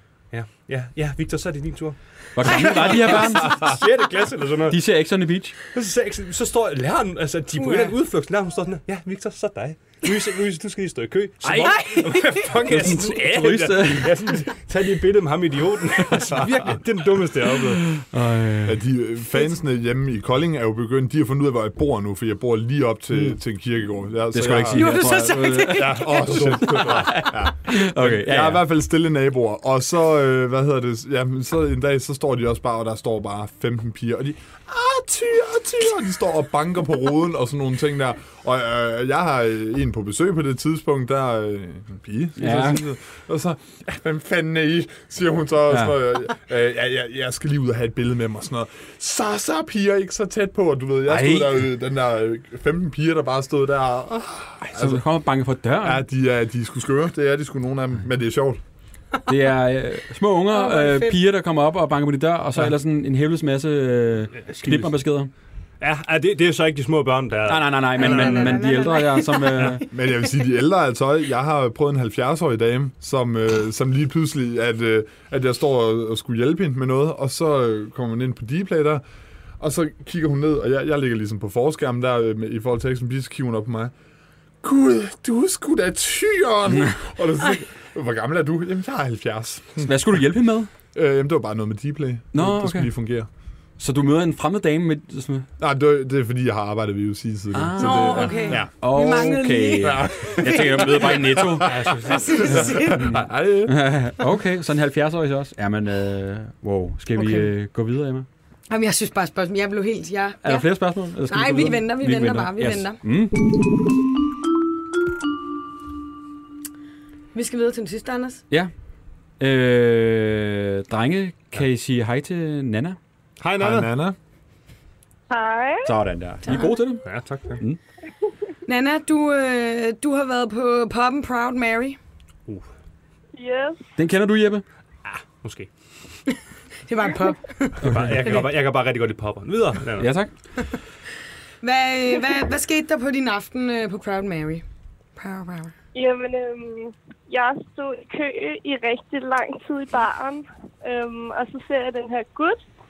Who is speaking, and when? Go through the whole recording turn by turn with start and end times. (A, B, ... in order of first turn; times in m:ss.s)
0:00.3-0:04.8 A
0:02.3-0:03.7 B
0:04.7-0:05.6 B
0:05.7-0:17.9 A
0:07.6-0:07.9 C
0:11.4-0:14.2 B
0:17.9-0:18.8 B
0:18.6-0:25.1 D
0:24.3-0:28.6 B
0:24.7-0:26.2 C
0:25.7-0:55.0 D
0:26.2-0:27.1 A
0:42.4-0:42.8 B
0:45.7-0:46.0 B
0:51.1-0:51.6 B
0:54.6-0:56.0 B
0:55.8-0:58.6 D
0:59.3-1:05.3 B
1:00.5-1:01.2 C
1:04.4-1:04.9 A
1:05.8-1:08.6 A
1:07.4-1:09.8 B
1:08.0-1:09.8 C
1:09.9-1:19.0 D
1:19.6-1:23.9 D
1:24.6-1:29.9 D
1:29.8-1:30.7 B
1:30.9-1:33.3 D
1:32.3-1:32.9 B
1:33.8-1:35.5 B
1:35.6-1:38.7 D
1:37.5-1:41.9 B
1:37.8-1:40.6 C
1:39.8-1:43.7 D
1:41.6-1:42.5 A
1:42.0-1:43.0 C
1:43.0-1:48.2 B
1:47.1-1:47.5 C
1:48.7-1:50.7 C
1:50.4-1:53.4 B
1:51.2-1:53.0 C
1:57.3-1:58.4 C
1:59.4-2:03.0 B
2:03.4-2:03.9 A
2:03.6-2:04.2 D
2:05.3-2:05.9 E
2:05.8-2:07.0 B
2:06.4-2:06.8 C
2:07.0-2:07.6 A
2:08.6-2:12.0 C
2:13.4-2:13.8 E
2:14.0-2:14.6 B
2:15.0-2:15.7 A
2:16.9-2:18.0 C
2:17.8-2:18.4 B
2:17.8-2:20.1 A
2:20.0-2:20.3 B
2:21.6-2:24.6 C
2:25.2-2:25.7 C
2:25.9-2:32.6 E